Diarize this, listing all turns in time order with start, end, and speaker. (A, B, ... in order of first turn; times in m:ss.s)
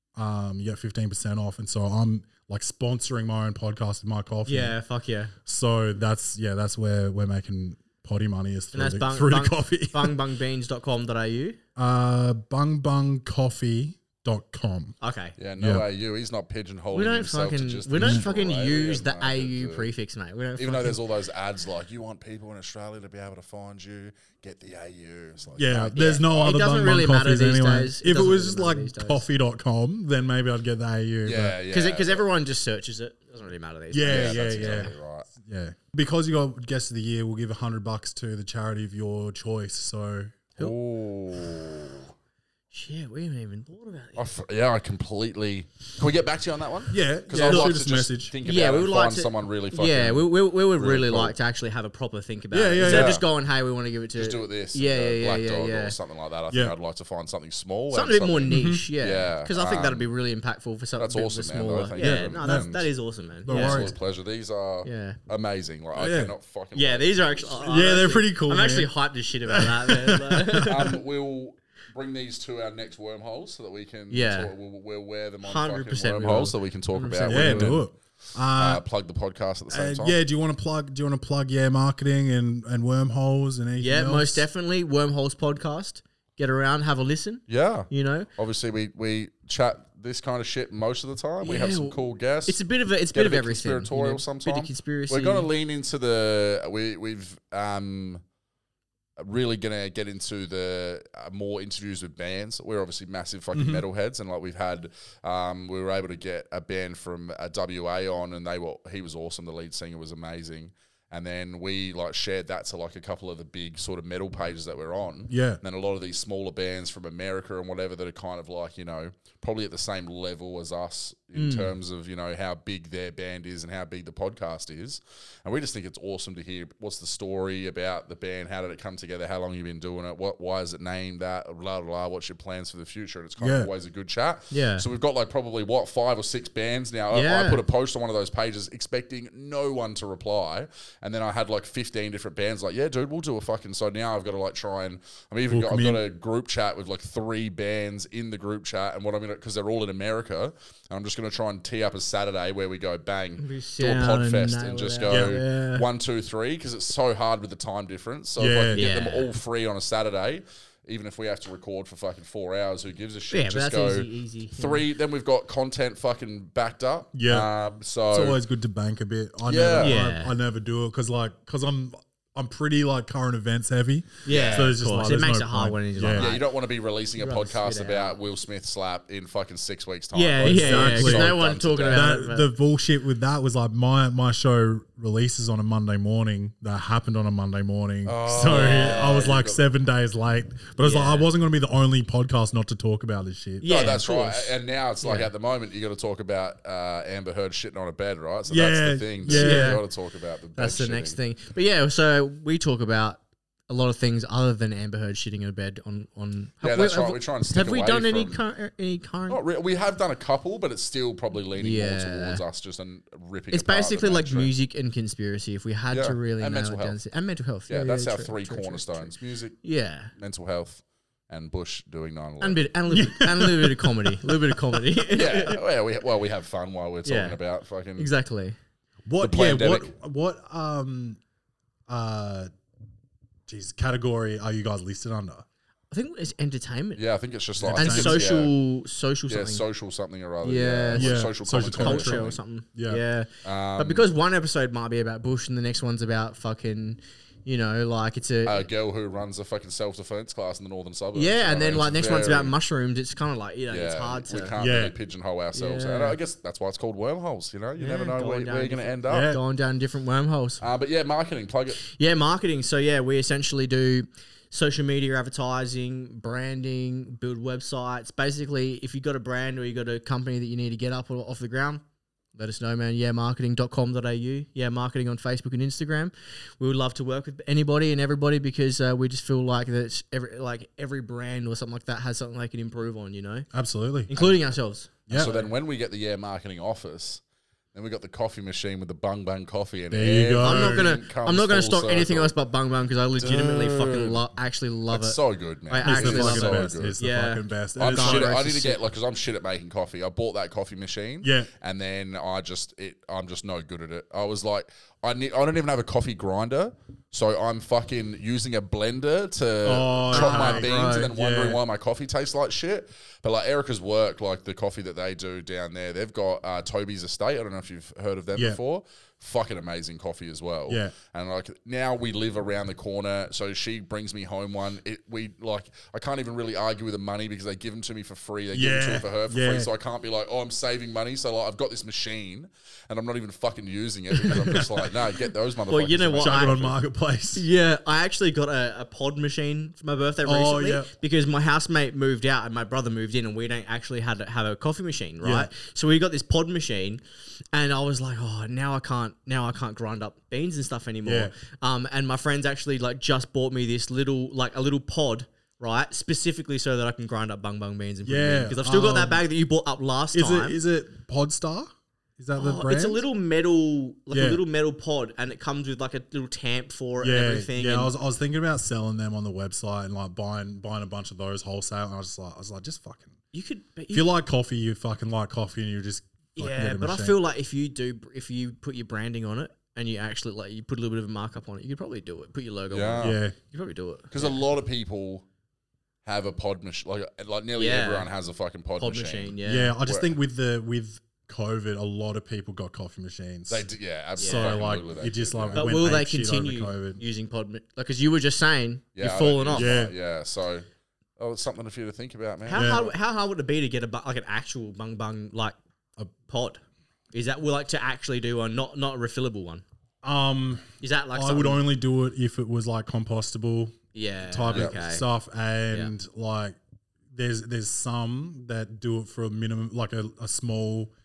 0:00.2-0:04.8 A
0:04.5-0:05.3 B
0:05.5-0:10.2 A
0:08.7-0:11.6 B
0:11.8-0:15.0 A
0:15.0-0:15.4 B
0:15.4-0:19.9 C
0:15.6-0:15.9 A
0:16.9-0:21.0 B
0:20.6-0:26.2 C
0:25.6-0:31.6 A
0:25.8-0:29.2 B
0:31.2-0:32.2 C
0:31.7-0:34.9 B
0:33.9-0:40.4 A
0:34.1-0:35.3 C
0:40.6-0:42.1 C
0:42.7-0:44.3 B
0:44.2-0:51.4 C
0:46.9-0:48.4 A
0:47.4-0:47.7 B
0:48.4-0:56.0 B
0:52.5-0:53.2 A
0:52.8-0:53.2 C
0:54.2-1:00.0 C
0:56.5-0:56.8 A
0:57.9-1:03.9 B
0:58.5-0:58.8 A
1:01.0-1:02.9 C
1:02.0-1:02.7 A
1:03.4-1:04.0 A
1:03.5-1:07.7 C
1:04.8-1:05.2 B
1:06.0-1:06.3 A
1:06.8-1:10.9 B
1:07.6-1:08.9 A
1:09.5-1:11.0 A
1:10.6-1:17.9 C
1:14.1-1:14.5 B
1:15.4-1:17.8 B
1:17.3-1:18.8 A
1:18.5-1:20.2 C
1:19.7-1:24.5 A
1:23.8-1:28.3 B
1:27.5-1:32.6 C
1:31.4-1:35.5 B
1:33.1-1:38.2 C
1:39.2-2:48.4 C
1:43.5-1:43.8 A
1:55.3-1:55.6 A
2:01.4-2:01.7 B
2:13.4-2:13.7 A
2:14.5-2:14.9 B
2:17.1-2:17.6 B
2:25.5-2:26.0 A
2:33.4-2:35.9 B
2:35.1-2:35.4 A
2:38.4-2:38.9 A
2:38.7-2:39.3 B
2:43.3-2:44.8 B
2:47.1-2:47.5 A
2:48.1-2:56.3 A
2:49.4-2:50.0 C
2:49.8-2:50.3 B
2:54.2-2:56.4 B
2:54.3-2:54.7 C
2:56.1-3:02.1 C
2:57.2-2:58.2 B
3:00.1-3:02.5 B
3:00.4-3:01.4 A
3:01.9-3:13.9 A
3:08.1-3:09.6 C
3:08.5-3:09.2 B
3:10.8-3:11.3 B
3:13.6-3:15.3 B
3:13.6-3:21.2 C
3:18.5-3:19.8 A
3:19.3-3:19.8 B
3:20.6-3:29.4 B
3:26.6-3:28.4 C
3:29.3-3:34.5 C
3:31.6-3:32.4 B
3:33.5-3:40.1 B
3:35.9-3:37.0 C
3:37.7-3:39.6 C
3:40.2-3:42.7 C
3:42.4-3:45.6 B
3:42.9-3:44.8 A
3:45.1-3:48.1 C
3:47.0-3:47.4 B
3:48.0-3:48.6 B
3:49.1-3:51.2 A
3:49.2-3:49.9 C
3:51.9-3:52.5 A
3:53.5-3:55.4 A
3:55.9-3:57.0 B
3:57.0-3:58.5 C
3:57.6-3:58.4 A
3:57.8-3:59.7 B
3:59.3-4:02.4 C
4:00.4-4:08.6 B
4:01.0-4:03.0 A
4:03.4-4:04.1 C
4:08.4-4:12.5 C
4:11.2-4:14.5 B
4:13.7-4:19.4 C
4:14.6-4:15.0 A
4:15.5-4:16.2 B
4:17.8-4:20.6 B
4:19.1-4:19.4 A
4:20.6-4:21.8 C
4:21.8-4:31.8 B
4:32.3-4:43.5 B
4:43.5-4:44.3 A
4:44.1-4:45.5 B
4:45.1-4:47.2 C
4:47.7-4:52.3 C
4:49.9-4:50.9 A
4:50.4-4:58.8 B
4:53.2-4:54.3 C
4:54.9-4:57.0 C
4:55.8-4:58.4 A
4:57.8-5:36.8 C
5:01.2-5:01.5 A
5:09.6-5:11.6 A
5:10.1-5:11.1 B
5:20.7-5:20.9 A
5:28.5-5:29.7 A
5:34.2-5:34.7 B
5:34.4-5:34.6 A
5:35.7-5:36.6 B
5:36.2-5:37.4 A
5:37.3-5:47.0 B
5:40.2-5:40.9 A
5:45.2-5:45.5 A
5:47.5-6:00.6 B
5:51.0-5:51.3 A
5:58.0-5:59.2 A
6:00.1-6:03.0 A
6:02.4-6:07.9 B
6:04.1-6:04.4 A
6:07.0-6:13.2 A
6:13.3-6:14.1 B
6:13.9-6:17.2 A
6:16.4-6:24.4 B
6:22.7-6:23.2 C
6:23.0-6:23.4 A
6:24.1-6:25.2 C
6:26.0-6:30.1 C
6:27.6-6:28.1 B
6:28.8-6:29.8 B
6:29.4-6:37.0 A
6:33.5-6:35.7 C
6:34.2-6:34.6 B
6:35.5-6:39.8 B
6:39.0-6:40.7 C
6:39.6-6:40.0 A
6:41.2-6:42.9 C
6:42.5-6:45.6 B
6:42.5-6:42.8 A
6:46.2-6:49.6 B
6:50.0-6:53.8 A
6:50.8-6:51.6 B
6:53.9-6:55.1 B
6:54.3-6:56.6 A
6:57.1-7:00.9 A